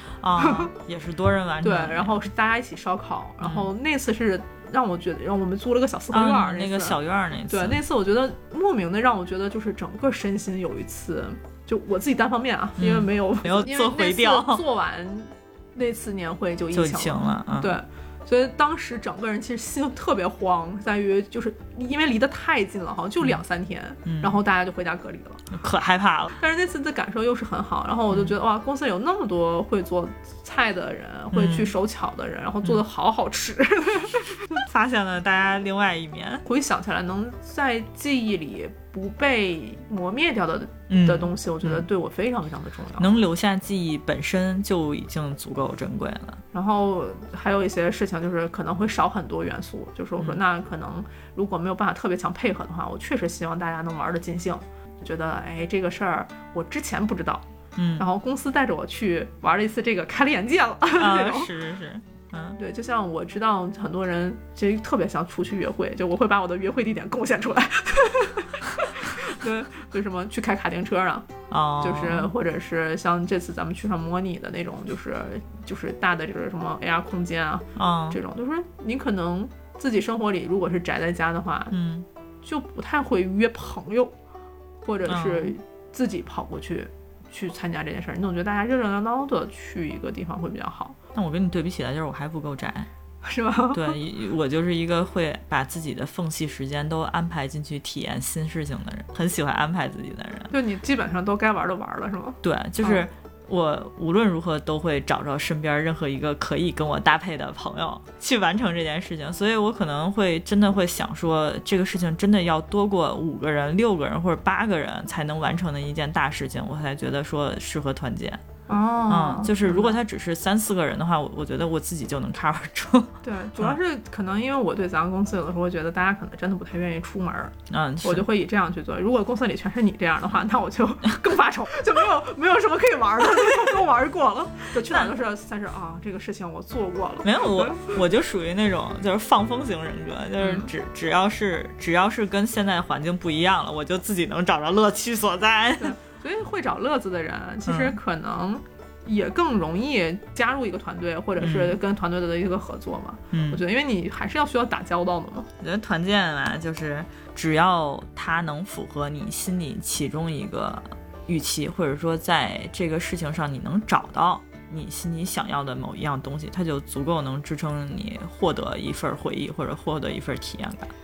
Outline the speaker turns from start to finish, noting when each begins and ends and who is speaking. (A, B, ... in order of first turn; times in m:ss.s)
0:00.2-0:02.1 A
0:00.4-0:00.7 B
0:01.6-0:07.0 B
0:03.4-0:03.7 A
0:06.1-0:07.8 A
0:07.5-0:25.4 B
0:12.8-0:14.6 A
0:16.7-0:17.8 A
0:24.0-0:24.4 A
0:25.5-0:26.4 A
0:26.4-0:34.6 B
0:31.3-0:31.7 A
0:34.5-0:36.4 A
0:36.4-0:43.2 B
0:40.9-0:41.8 A
0:43.0-0:46.4 A
0:46.5-0:57.4 B
0:57.8-0:58.0 A
0:58.0-1:01.5 B
1:01.0-1:02.6 A
1:02.6-1:11.3 B
1:11.5-1:12.3 A
1:11.8-1:21.8 B
1:17.8-1:18.2 A
1:21.7-1:22.1 A
1:22.4-1:24.1 B
1:24.8-1:31.0 B
1:25.1-1:25.5 A
1:31.1-1:32.9 A
1:33.2-1:34.0 B
1:33.7-1:40.5 A
1:40.5-1:43.0 B
1:42.4-1:58.4 A
1:58.7-2:00.0 B
1:59.1-2:03.8 A
2:03.2-2:17.9 B
2:07.7-2:08.2 A
2:14.9-2:15.1 A
2:17.2-2:25.9 A
2:20.4-2:20.7 B
2:25.8-2:35.5 B
2:27.7-2:28.0 A
2:31.4-2:31.8 A
2:33.3-2:33.6 A
2:35.6-2:50.9 A